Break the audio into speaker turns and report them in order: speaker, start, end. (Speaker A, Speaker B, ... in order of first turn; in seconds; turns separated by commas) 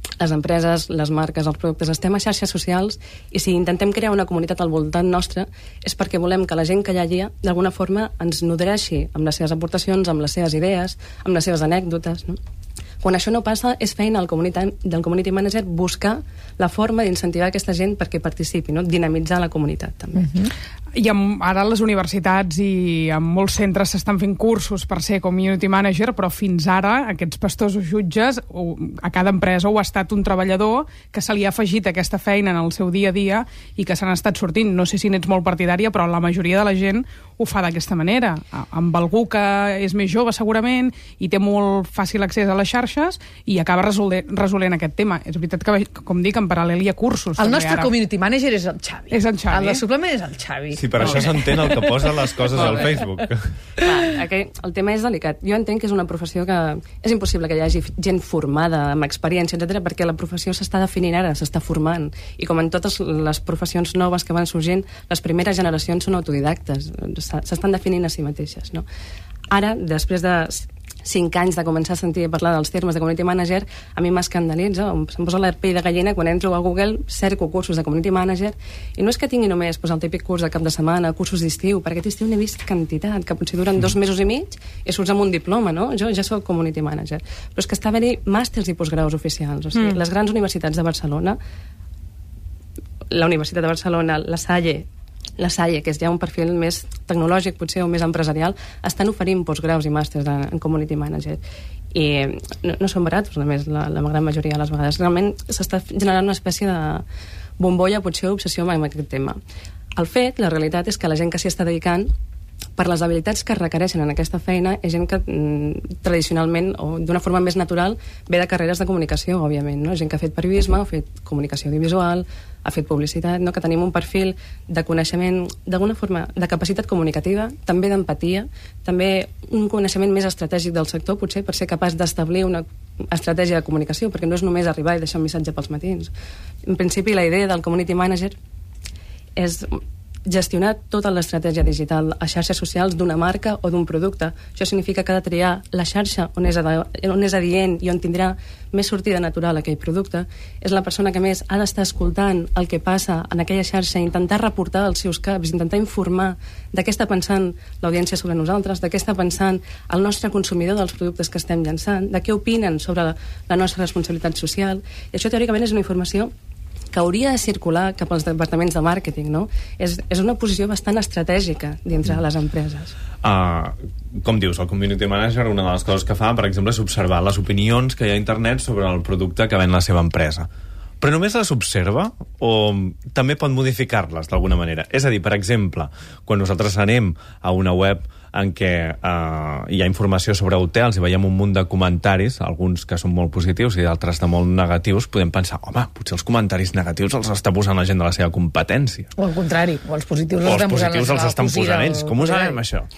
Speaker A: 0.2-12.4, Speaker A: 13.0-20.3, Speaker B: 20.9-47.9, Speaker C: 47.4-51.9, Speaker B: 49.1-49.8, Speaker D: 50.8-53.5, Speaker A: 53.8-68.8, Speaker A: 69.5-91.4, Speaker A: 93.1-94.9, Speaker A: 95.4-101.4, Speaker A: 101.9-107.0, Speaker A: 107.6-109.4, Speaker A: 109.9-112.1, Speaker A: 112.8-136.1, Speaker A: 136.6-138.4, Speaker A: 139.4-166.3, Speaker A: 166.9-172.9, Speaker D: 173.2-180.5, Speaker D: 181.0-199.1, Speaker C: 199.2-202.6, Speaker D: 200.4-202.9